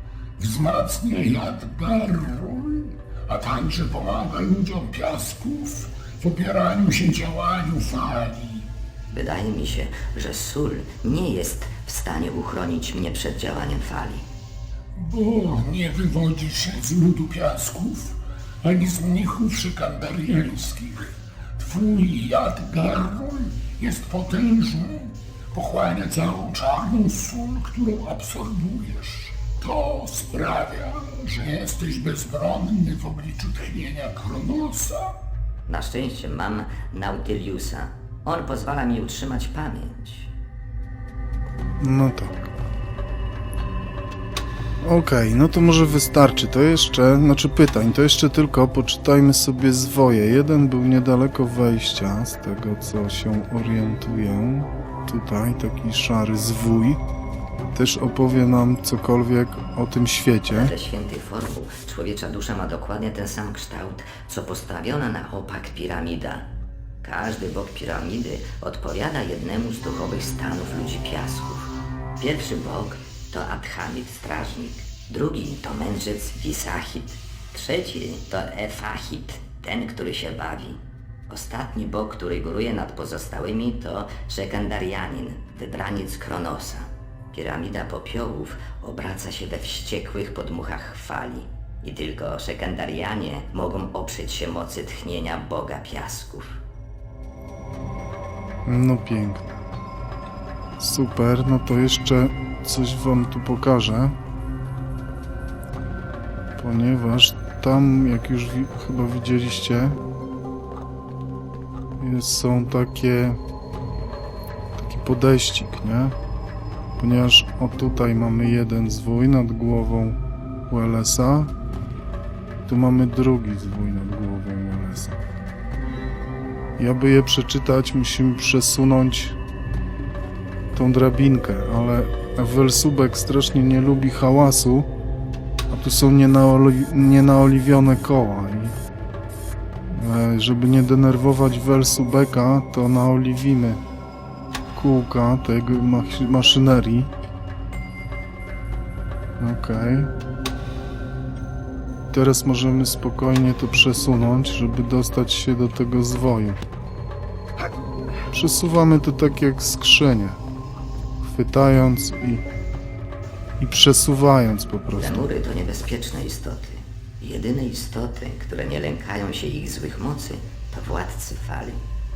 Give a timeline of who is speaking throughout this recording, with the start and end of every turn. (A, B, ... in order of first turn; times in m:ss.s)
0:00.4-0:08.7 A
0:09.1-0:14.2 B
0:14.9-0:35.1 A
0:35.7-0:40.3 B
0:41.8-0:42.5 C
0:44.8-0:57.0 C
0:57.7-1:00.7 C
1:00.5-1:06.4 B
1:07.0-1:36.6 B
1:38.6-1:39.5 C
1:40.8-1:44.2 C
1:46.6-1:50.0 C
1:52.0-1:53.4 C
1:54.8-1:56.1 C
1:57.0-2:01.5 C
2:02.6-2:05.2 C
2:06.8-2:09.4 C
2:10.7-2:14.9 C
2:15.7-2:18.8 C
2:19.9-2:23.8 C
2:24.7-2:27.1 C
2:29.4-2:30.1 C
2:32.1-2:36.6 C
2:38.3-2:40.4 C
2:41.2-2:42.4 C
2:43.6-2:45.2 C
2:45.0-2:51.8 B